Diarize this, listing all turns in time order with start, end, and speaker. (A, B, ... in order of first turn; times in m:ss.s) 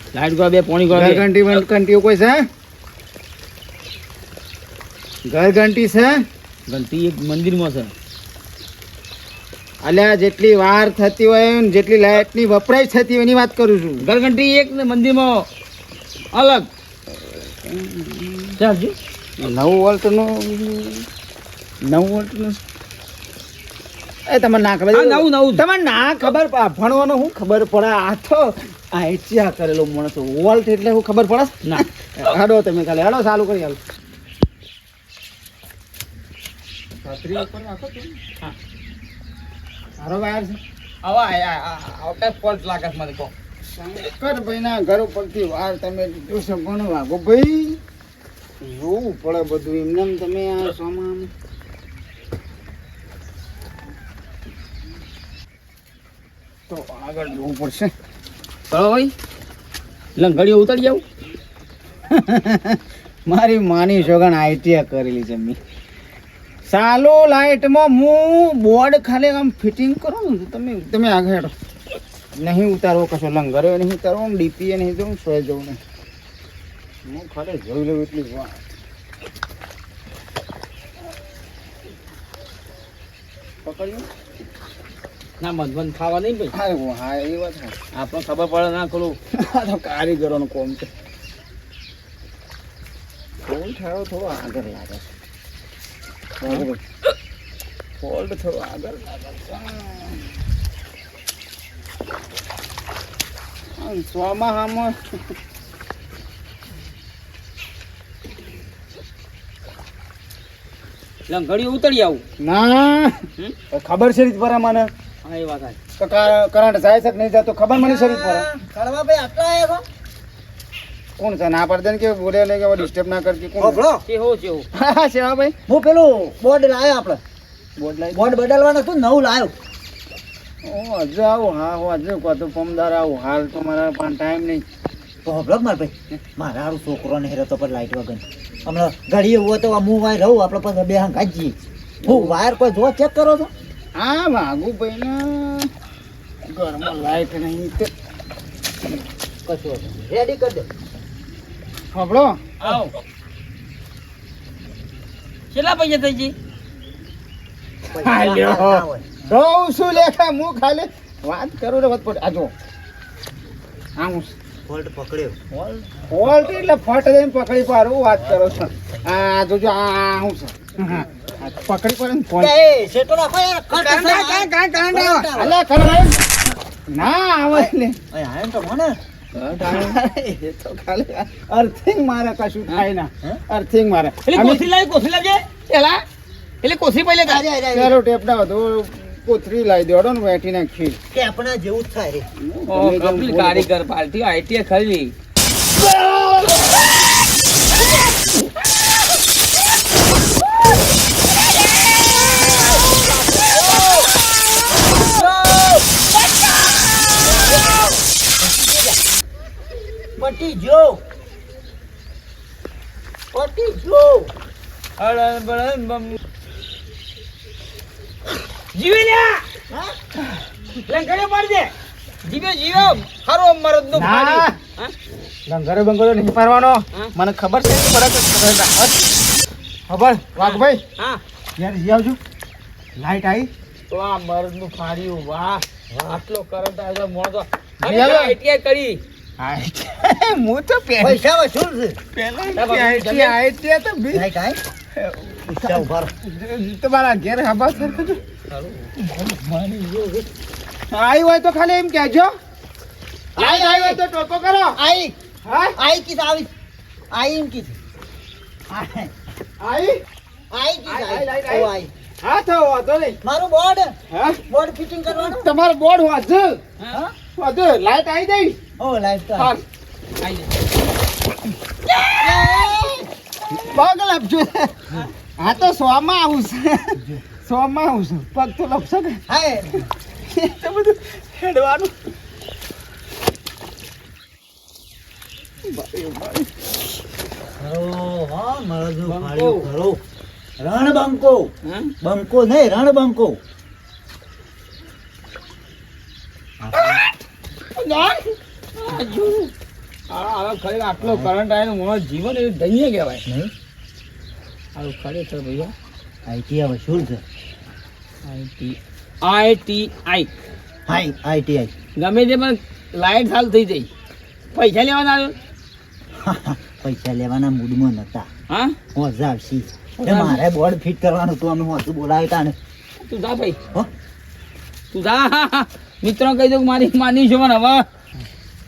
0:00.1-0:01.2 A
0:00.9-0:02.4 B
0:05.2-0:06.2 B
0:06.7-0:07.9 A
0:09.8-0:14.0 B
0:14.0-0:15.5 A
0:16.3-0:16.7 A
0:17.4-0:18.6 B
0:18.6-0:18.9 A
0:19.4-0:21.0 B
0:21.8-0:22.6 B
0:24.3-0:33.8 B
0:24.9-0:25.6 A
0:37.0-0:38.2 B
0:40.0-0:40.6 B
0:41.0-0:43.3 A
0:43.7-0:47.8 B
0:48.6-0:51.3 B
0:56.7-0:57.9 B
0:58.7-0:59.1 A
1:00.2-1:01.0 A
1:02.1-1:05.6 B
1:06.6-1:11.5 B
1:12.4-1:15.8 B
1:17.0-1:18.6 B
1:23.6-1:24.0 B
1:25.4-1:26.5 A
1:26.5-1:27.7 B
1:27.9-1:29.2 A
1:29.3-1:30.9 B
1:33.5-1:35.1 B
1:36.4-1:36.8 B
1:38.0-1:40.2 B
1:43.8-1:45.2 B
1:51.3-1:52.2 A
1:52.4-1:54.9 B
1:55.2-1:55.8 A
1:56.0-1:58.4 B
1:57.7-1:59.8 C
2:01.2-2:03.8 B
2:03.6-2:04.0 C
2:04.1-2:04.6 A
2:04.7-2:05.6 B
2:05.7-2:07.2 C
2:07.8-2:08.3 B
2:08.1-2:09.5 C
2:10.6-2:14.6 B
2:15.2-2:23.5 C
2:22.0-2:22.4 B
2:24.0-2:25.7 B
2:26.5-2:27.9 B
2:29.4-2:30.7 C
2:31.9-2:32.4 B
2:32.6-2:32.9 A
2:35.5-2:36.3 A
2:37.9-2:39.1 C
2:38.0-2:42.5 B
2:44.0-2:44.3 B
2:44.6-2:45.4 C
2:45.5-2:45.8 A
2:46.1-2:52.5 B
2:52.4-2:55.6 C
2:53.7-2:56.2 B
2:56.9-2:58.0 B
2:57.5-2:59.0 C
2:59.4-2:59.9 A
2:59.6-3:04.6 B
3:04.2-3:06.0 A
3:06.6-3:07.4 A
3:07.2-3:08.0 C
3:07.7-3:11.0 B
3:11.1-3:12.2 C
3:12.4-3:13.7 B
3:12.7-3:15.1 A
3:22.2-3:29.0 C
3:30.2-3:31.0 C
3:33.3-3:34.3 C
3:35.0-3:36.2 A
3:38.7-3:39.4 A
3:39.7-3:40.0 C
3:40.9-3:41.7 A
3:42.2-3:44.9 A
3:43.9-3:44.5 B
3:45.5-3:49.0 B
3:49.9-3:50.8 B
3:50.4-3:51.2 A
3:51.6-3:52.2 B
3:53.0-3:53.5 B
3:53.9-3:59.0 A
3:57.8-3:58.4 B
3:59.4-4:01.2 B
4:01.0-4:02.0 C
4:02.2-4:04.2 B
4:02.3-4:03.4 A
4:04.1-4:04.6 C
4:05.0-4:08.2 B
4:05.5-4:06.1 C
4:08.5-4:08.9 A
4:09.0-4:09.8 B
4:10.9-4:12.3 B
4:13.4-4:14.0 C
4:13.4-4:14.8 B
4:14.7-4:15.1 C
4:15.4-4:15.8 B
4:15.8-4:16.5 C
4:17.1-4:17.8 C
4:18.7-4:19.1 C
4:19.6-4:20.0 B
4:20.5-4:21.9 C
4:20.8-4:21.7 B
4:22.2-4:23.2 B
4:23.2-4:25.4 C
4:24.1-4:24.4 B
4:25.1-4:26.6 B
4:27.4-4:28.6 B
4:28.8-4:29.5 C
4:29.4-4:29.6 B
4:30.2-4:30.5 A
4:31.9-4:32.3 A
4:32.2-4:33.0 C
4:33.5-4:34.8 B
4:35.4-4:39.2 B
4:39.3-4:39.7 C
4:40.3-4:41.9 B
4:45.7-4:46.5 B
4:47.6-4:50.0 C
4:49.0-4:49.7 A
4:50.6-4:51.5 C
4:51.6-4:51.9 A
4:52.0-4:53.4 C
4:56.6-4:57.0 C
4:57.8-4:59.5 A
5:00.1-5:03.2 A
5:01.0-5:01.3 C
5:03.2-5:03.5 C
5:04.8-5:05.7 A
5:06.2-5:07.2 C
5:08.2-5:10.3 A
5:10.9-5:11.7 C
5:12.0-5:13.9 A
5:14.5-5:15.3 A
5:16.2-5:18.3 C
5:18.5-5:18.8 A
5:18.9-5:22.6 C
5:20.0-5:20.4 A
5:23.0-5:23.6 A
5:24.9-5:27.8 A